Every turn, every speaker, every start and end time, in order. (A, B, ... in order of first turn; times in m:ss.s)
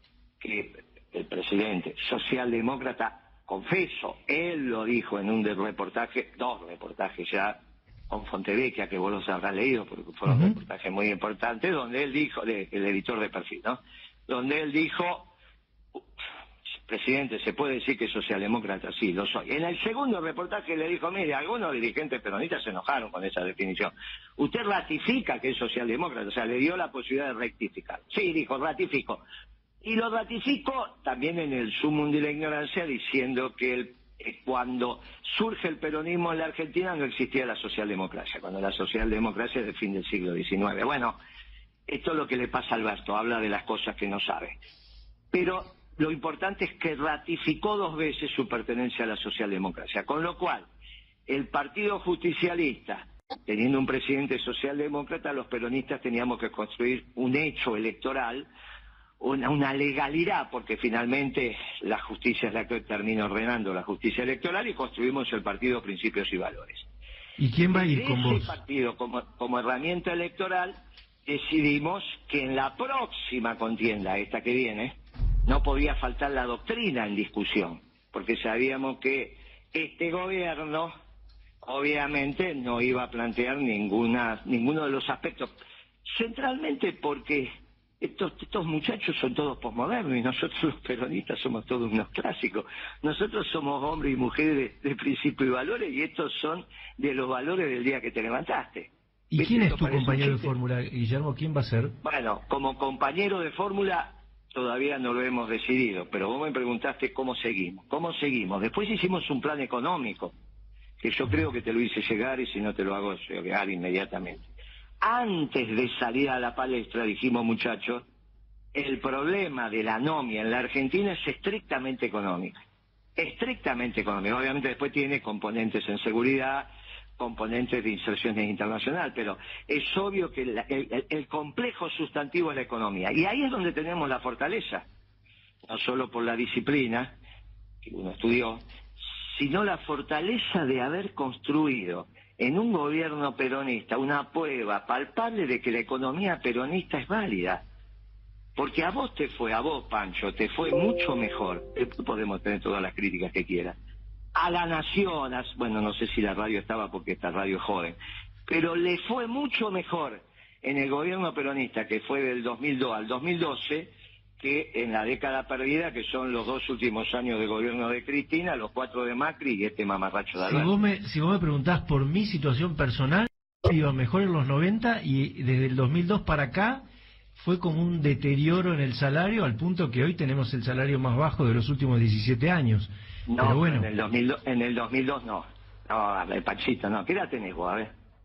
0:00.4-0:07.6 A
0:08.1-0:15.3 A
0:10.3-0:10.6 B
0:16.8-0:29.2 A
0:29.8-0:41.2 A
0:41.9-0:44.6 A
0:45.3-0:50.7 A
0:51.3-0:58.5 A
0:59.2-1:06.8 A
1:07.4-1:08.5 B
1:07.7-1:20.9 A
1:21.6-1:40.5 A
1:39.3-1:42.0 B
1:42.0-1:50.3 A
1:51.0-1:54.5 A
1:55.0-1:58.1 A
1:58.7-2:02.6 A
2:03.2-2:14.9 A
2:15.7-2:17.2 A
2:17.8-2:18.6 A
2:19.3-2:27.6 A
2:28.6-2:33.8 A
2:34.4-2:50.7 A
2:50.4-2:56.8 B
2:57.4-3:03.9 B
3:03.3-3:07.9 A